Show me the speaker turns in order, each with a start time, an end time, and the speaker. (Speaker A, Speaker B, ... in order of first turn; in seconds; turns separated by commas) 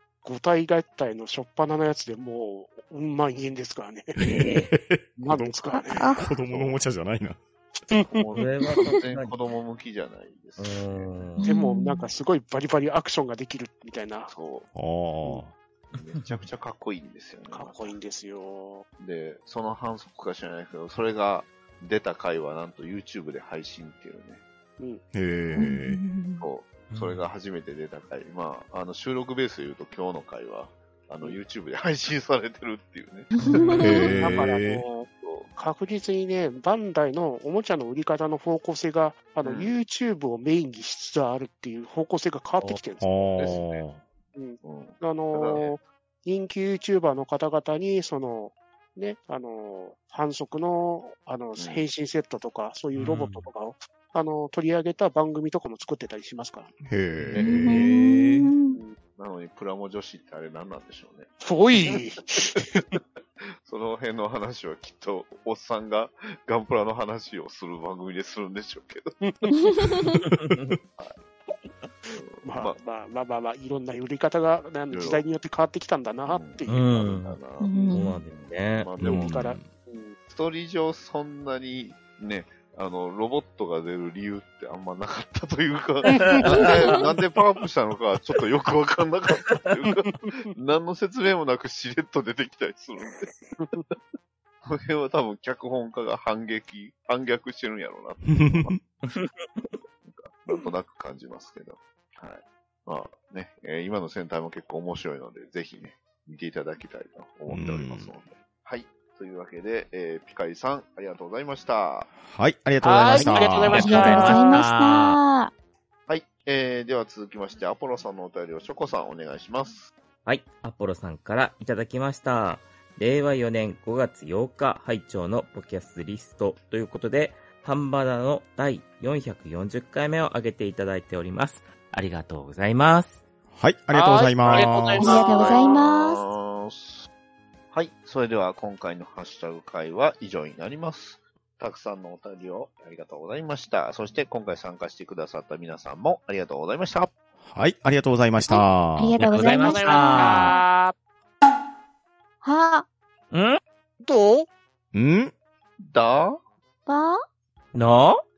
Speaker A: 0.2-4.1, Speaker B: 4.2-7.4, Speaker C: 4.3-4.7, Speaker A: 5.2-6.1, Speaker D: 5.7-6.3, Speaker E: 6.4-6.9, Speaker A: 7.9-8.2, Speaker E: 8.1-11.3, Speaker C: 8.3-9.3, Speaker C: 10.6-11.4, Speaker D: 11.4-12.1, Speaker A: 11.4-14.3, Speaker E: 14.3-14.7, Speaker B: 14.7-15.5, Speaker C: 15.9-16.4, Speaker E: 15.9-18.0, Speaker A: 17.5-18.9, Speaker E: 19.0-24.4, Speaker B: 25.1-26.0, Speaker D: 25.5-26.5, Speaker E: 26.4-34.1, Speaker C: 26.9-27.3, Speaker D: 33.3-34.1, Speaker C: 33.5-34.0, Speaker B: 33.8-34.8, Speaker A: 34.1-43.1, Speaker E: 35.2-35.5, Speaker E: 39.4-39.7, Speaker B: 43.0-44.0, Speaker E: 43.4-43.8, Speaker A: 44.3-56.7, Speaker E: 44.6-45.7, Speaker E: 51.6-51.9, Speaker C: 52.9-53.5, Speaker B: 56.8-58.5, Speaker E: 57.3-57.9, Speaker D: 57.3-58.8, Speaker E: 59.1-62.6, Speaker A: 61.4-63.0, Speaker E: 63.6-69.1, Speaker A: 69.2-69.5, Speaker D: 69.5-70.2, Speaker C: 70.3-70.8, Speaker E: 72.1-72.8, Speaker A: 72.4-77.2, Speaker E: 74.9-75.2, Speaker E: 76.3-79.4, Speaker C: 76.7-78.9, Speaker D: 77.6-78.2, Speaker B: 79.0-79.7, Speaker A: 79.0-80.2, Speaker E: 80.3-93.3, Speaker A: 86.1-86.9, Speaker C: 86.2-86.9, Speaker E: 94.6-98.8, Speaker B: 98.3-98.8, Speaker C: 99.0-99.7, Speaker E: 100.0-112.1, Speaker B: 107.5-108.1, Speaker B: 112.2-114.3, Speaker A: 112.8-114.4, Speaker C: 113.1-115.2, Speaker D: 113.7-115.5, Speaker E: 116.1-119.9, Speaker C: 120.2-133.2, Speaker B: 133.5-135.1, Speaker A: 133.9-135.6, Speaker E: 134.5-137.1, Speaker D: 135.0-136.2, Speaker E: 137.7-147.1, Speaker B: 147.4-149.1, Speaker D: 148.4-150.5, Speaker C: 149.2-150.6, Speaker A: 149.4-150.9, Speaker D: 152.4-152.8, Speaker C: 153.3-153.6, Speaker A: 154.0-154.5, Speaker B: 154.9-155.3, Speaker E: 155.8-156.4, Speaker D: 156.8-157.2, Speaker C: 157.7-158.2